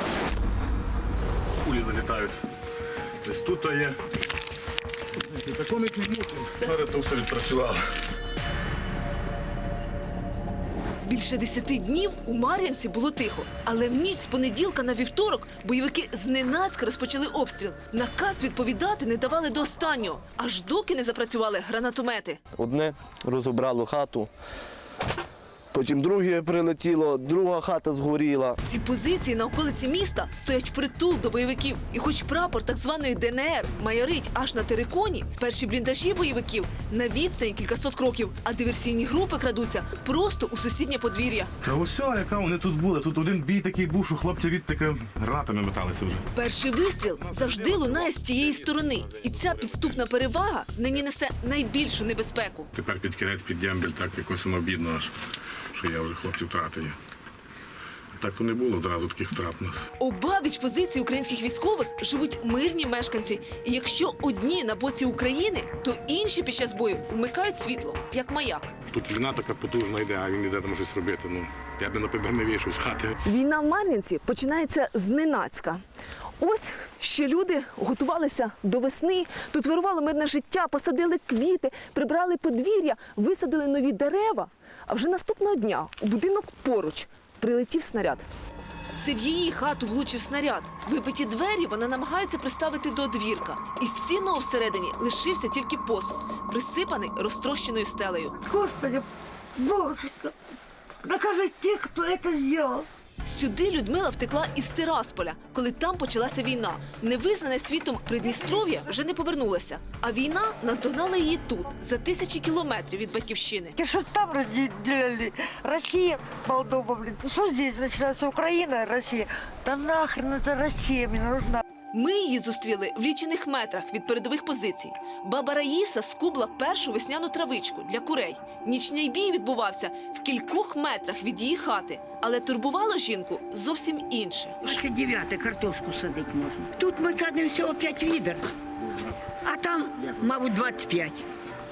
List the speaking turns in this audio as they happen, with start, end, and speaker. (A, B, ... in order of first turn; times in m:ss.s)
0:01.6-0:02.4 A
0:03.2-0:04.0 A
0:05.5-0:07.8 A
0:11.0-0:22.4 B
0:22.6-0:24.3 C
0:25.7-0:28.6 C
0:28.7-0:41.5 B
0:41.6-0:46.2 A
0:46.3-0:52.7 B
0:47.2-0:48.0 A
0:52.8-0:55.1 A
0:55.8-0:57.0 A
0:58.2-0:59.8 A
1:00.0-1:08.7 B
1:08.9-1:13.1 A
1:13.2-1:15.8 B
1:16.4-1:28.3 B
1:29.0-1:38.4 B
1:38.5-1:39.0 D
1:39.6-1:40.3 D
1:41.0-1:42.8 D
1:43.2-1:53.8 B
1:53.8-2:01.6 D
2:01.9-2:14.8 B
2:14.6-2:18.4 E
2:19.4-2:21.2 E